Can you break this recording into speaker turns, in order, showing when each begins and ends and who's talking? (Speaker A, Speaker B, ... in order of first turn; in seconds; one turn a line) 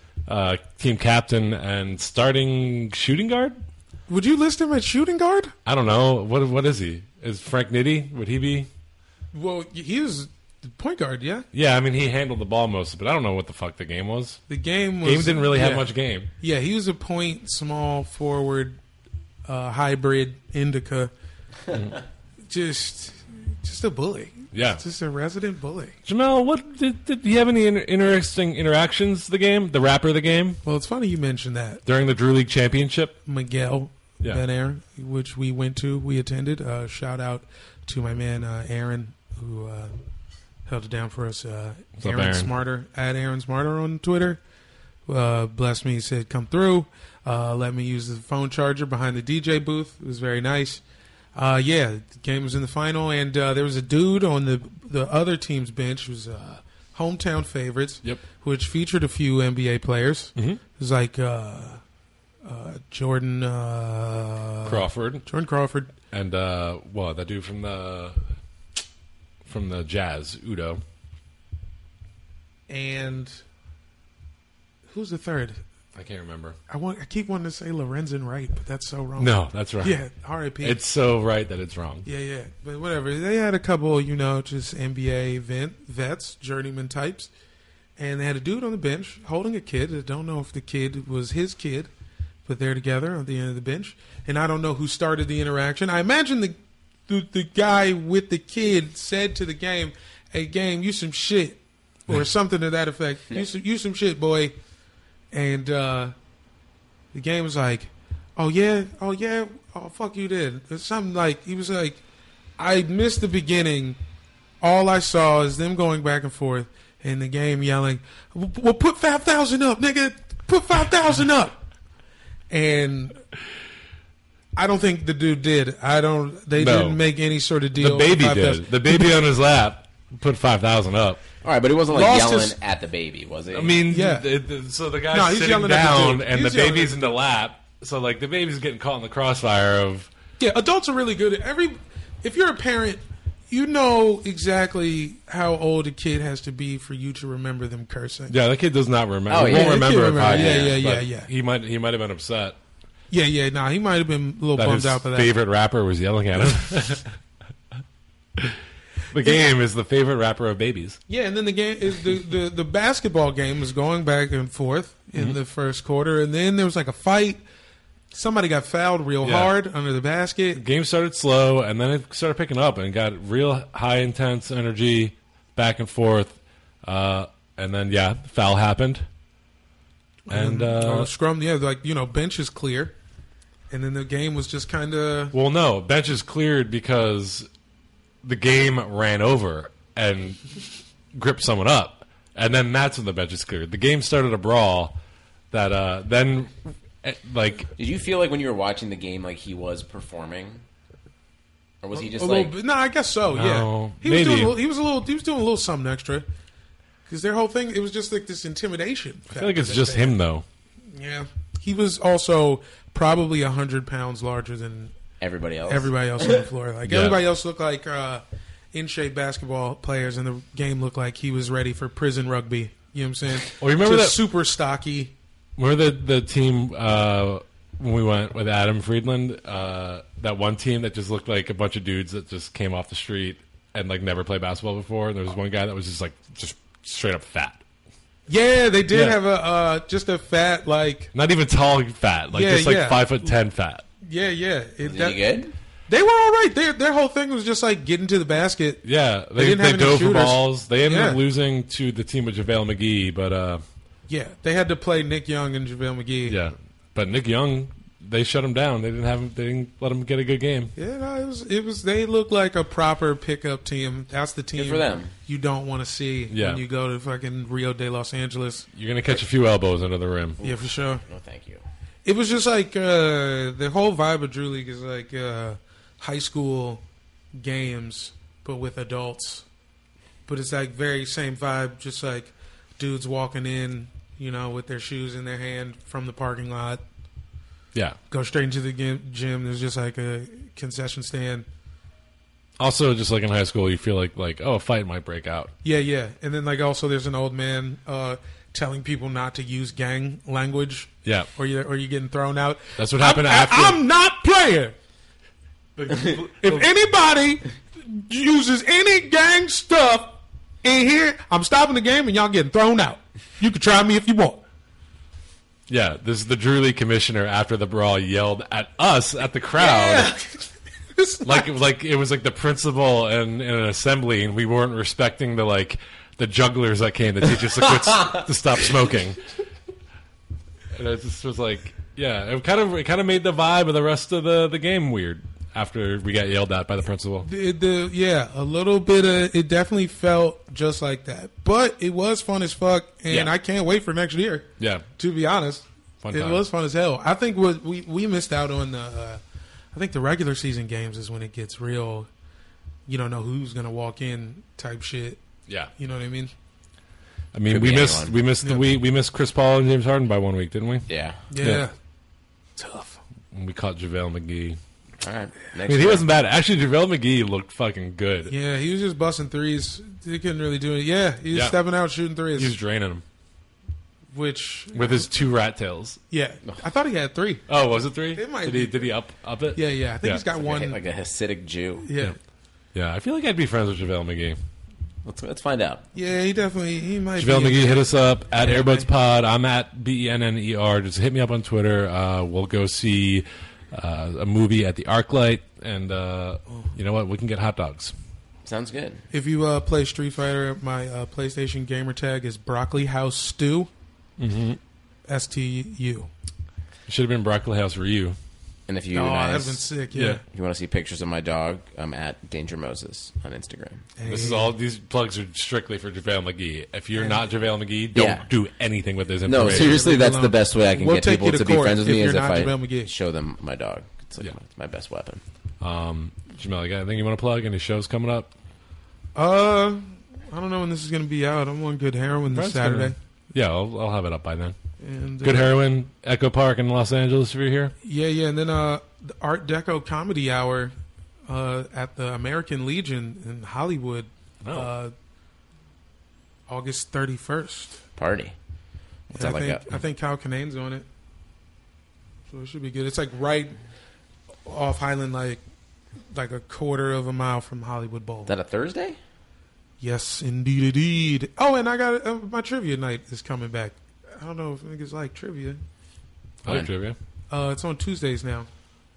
Speaker A: 0.3-3.6
Speaker B: 4.1-5.5
Speaker A: 5.7-8.7
Speaker B: 9.3-11.5
Speaker A: 11.5-14.4
Speaker B: 14.5-18.8
Speaker A: 15.0-16.3
Speaker B: 19.5-21.1
Speaker B: 22.5-26.0
Speaker A: 24.5-24.8
Speaker A: 26.1-30.6
Speaker B: 30.6-31.8
Speaker A: 31.9-33.2
Speaker B: 33.3-39.9
Speaker B: 40.7-44.4
Speaker A: 42.0-42.5
Speaker B: 45.1-50.8
Speaker B: 51.4-61.8
Speaker B: 62.4-65.9
Speaker A: 64.7-65.3
Speaker A: 66.1-68.2
Speaker A: 69.5-70.8
Speaker B: 72.7-73.4
Speaker B: 74.9-75.6
Speaker A: 76.0-76.6
Speaker B: 76.7-80.8
Speaker A: 79.2-80.0
Speaker A: 80.6-82.1
Speaker B: 82.1-87.3
Speaker B: 88.0-91.9
Speaker B: 92.5-96.6
Speaker B: 97.1-104.5
Speaker B: 105.3-106.1
Speaker B: 107.1-112.0
Speaker B: 112.6-114.0
Speaker B: 114.6-121.6
Speaker B: 122.5-123.2
Speaker B: 124.6-129.2
Speaker A: 126.5-127.0
Speaker A: 127.8-131.2
Speaker C: 131.4-133.8
Speaker B: 131.9-132.6
Speaker A: 133.5-140.1
Speaker B: 133.8-134.3
Speaker B: 135.1-137.2
Speaker B: 140.4-148.4
Speaker A: 148.3-152.6
Speaker C: 149.3-150.8
Speaker B: 149.4-151.3
Speaker B: 153.1-155.4
Speaker A: 154.6-157.2
Speaker A: 159.1-161.0
Speaker B: 161.1-167.4
Speaker B: 168.1-170.6
Speaker A: 169.2-169.5
Speaker A: 170.6-179.1
Speaker B: 180.3-182.9
Speaker A: 180.3-181.1
Speaker B: 183.7-185.3
Speaker A: 185.3-187.5
Speaker A: 188.2-190.4
Speaker A: 191.1-194.9
Speaker A: 195.5-197.7
Speaker C: 197.8-200.6
Speaker C: 201.8-202.5
Speaker B: 202.0-206.3
Speaker A: 203.3-204.6
Speaker B: 207.1-210.2
Speaker A: 209.3-210.5
Speaker B: 210.9-214.9
Speaker C: 215.2-216.4
Speaker B: 215.7-225.1
Speaker A: 216.8-217.2
Speaker A: 223.6-224.2
Speaker A: 225.6-237.6
Speaker B: 238.3-241.1
Speaker A: 238.9-239.2
Speaker A: 241.1-243.8
Speaker B: 242.3-243.3
Speaker B: 244.0-245.4
Speaker C: 244.8-245.5
Speaker B: 245.9-251.2
Speaker A: 248.8-253.6
Speaker B: 254.1-256.4
Speaker A: 256.3-260.7
Speaker B: 260.8-268.7
Speaker C: 264.6-265.1
Speaker A: 266.3-266.6
Speaker A: 268.8-270.4
Speaker B: 270.4-271.0
Speaker C: 270.4-271.6
Speaker B: 272.1-276.8
Speaker B: 277.4-279.4
Speaker B: 280.3-286.8
Speaker B: 288.1-291.5
Speaker A: 292.6-295.5
Speaker B: 295.6-304.8
Speaker A: 301.1-301.3
Speaker A: 302.8-303.8
Speaker A: 305.8-306.6
Speaker B: 305.9-314.4
Speaker A: 315.7-320.1
Speaker B: 319.6-321.5
Speaker A: 321.2-329.2
Speaker A: 330.7-337.3
Speaker B: 337.2-349.2
Speaker A: 344.6-344.9
Speaker A: 346.0-346.4
Speaker B: 349.7-352.1
Speaker B: 352.9-355.2
Speaker B: 355.8-356.3
Speaker A: 357.3-360.9
Speaker C: 357.5-358.1
Speaker B: 358.4-358.7
Speaker C: 360.9-361.2
Speaker B: 361.3-361.7
Speaker B: 362.6-363.0
Speaker A: 363.3-364.6
Speaker C: 365.0-366.1
Speaker A: 365.7-368.3
Speaker B: 368.3-372.6
Speaker A: 371.3-371.6
Speaker A: 372.4-373.0
Speaker B: 374.1-375.1
Speaker A: 374.7-376.0
Speaker B: 376.1-377.5
Speaker A: 377.5-380.2
Speaker B: 378.1-378.9
Speaker B: 379.5-380.8
Speaker C: 380.3-381.9
Speaker B: 381.8-382.2
Speaker A: 382.8-384.4
Speaker C: 385.1-385.9
Speaker B: 385.9-388.9
Speaker A: 387.2-397.9
Speaker C: 398.4-399.0
Speaker B: 399.1-403.7
Speaker A: 404.2-404.6
Speaker B: 405.1-406.1
Speaker A: 406.9-408.2
Speaker C: 408.7-409.7
Speaker B: 408.9-410.2
Speaker A: 409.9-410.2
Speaker C: 410.3-413.9
Speaker B: 414.0-414.5
Speaker A: 414.1-419.7
Speaker C: 417.9-418.3
Speaker C: 419.2-425.2
Speaker B: 419.4-422.9
Speaker A: 425.6-428.3
Speaker B: 429.1-433.0
Speaker A: 432.3-434.6
Speaker B: 434.8-435.6
Speaker A: 435.2-437.7
Speaker B: 437.8-440.7
Speaker B: 441.3-444.9
Speaker A: 444.4-444.7
Speaker B: 446.5-447.8
Speaker C: 448.0-448.4
Speaker B: 449.1-450.9
Speaker C: 449.1-449.7
Speaker B: 452.3-453.6
Speaker B: 454.4-455.4
Speaker B: 456.1-458.3
Speaker C: 458.3-459.0
Speaker B: 459.8-465.6
Speaker A: 466.4-467.0
Speaker B: 467.3-468.5